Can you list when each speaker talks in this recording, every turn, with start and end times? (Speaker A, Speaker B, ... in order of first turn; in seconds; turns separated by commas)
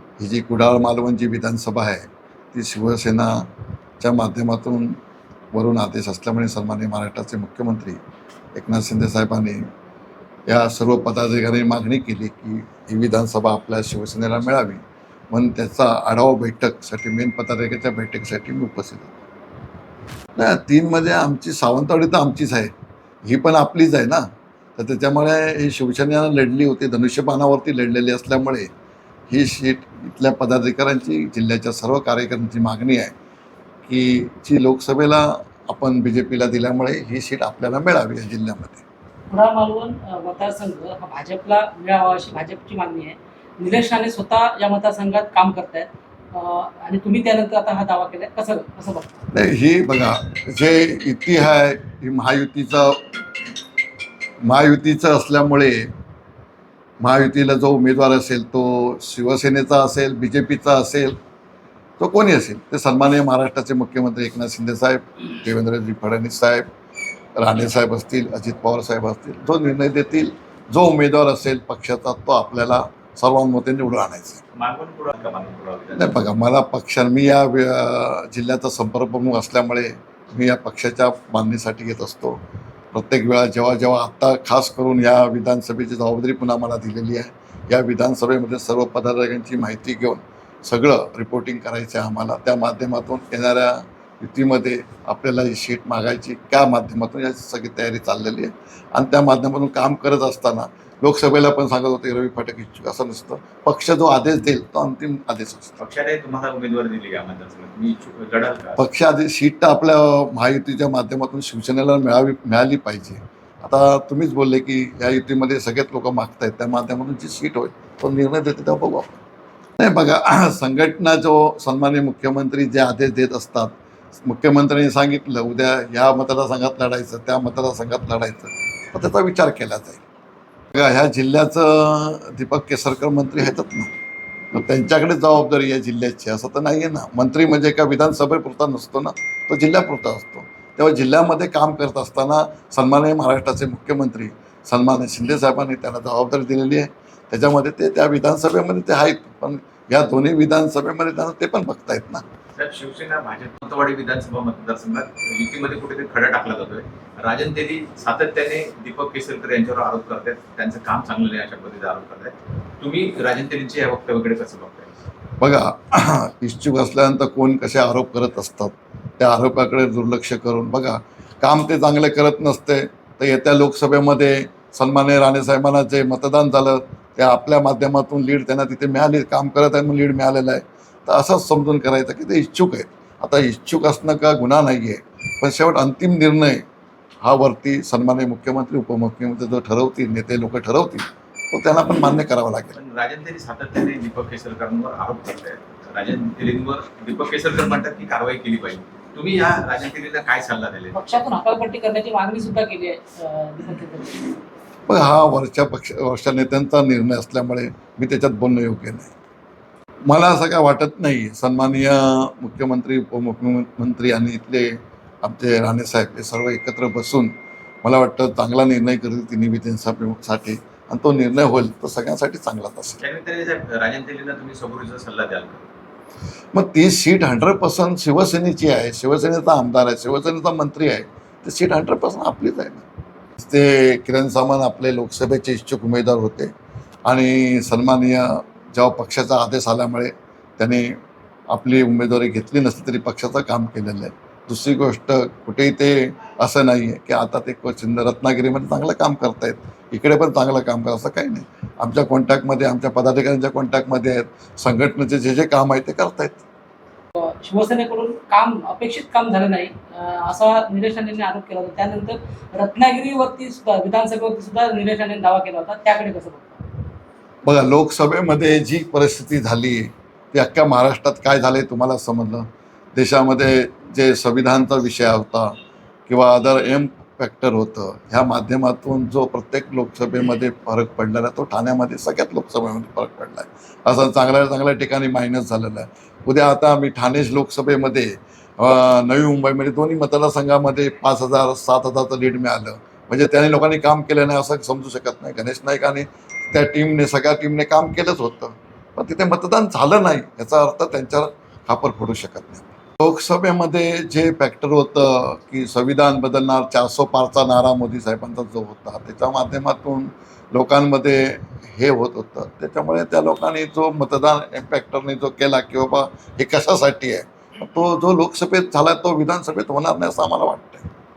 Speaker A: 0.2-3.5, Speaker A: 4.0-5.0, Speaker A: 5.5-8.0, Speaker A: 8.5-9.7, Speaker A: 10.5-19.2, Speaker A: 20.4-22.7, Speaker A: 23.2-28.7, Speaker A: 29.3-33.1, Speaker A: 33.9-38.8, Speaker B: 39.3-49.2, Speaker A: 49.3-53.2, Speaker A: 54.4-55.9, Speaker A: 57.0-61.2, Speaker A: 62.0-66.7, Speaker A: 67.4-74.4, Speaker C: 74.5-76.2, Speaker A: 76.0-82.4, Speaker A: 82.9-105.8, Speaker C: 105.8-108.8, Speaker A: 108.8-119.2, Speaker A: 119.8-130.0, Speaker A: 130.7-133.9, Speaker A: 134.5-152.2, Speaker C: 152.6-164.9, Speaker A: 165.4-186.6, Speaker A: 187.2-192.8, Speaker C: 192.8-201.0, Speaker B: 200.9-204.3, Speaker A: 204.9-209.1, Speaker A: 210.1-223.0, Speaker C: 223.0-225.7, Speaker A: 226.5-232.8, Speaker A: 233.4-236.5, Speaker A: 237.1-241.0, Speaker A: 241.5-256.4, Speaker B: 257.1-266.7, Speaker A: 267.4-275.5, Speaker A: 276.1-320.9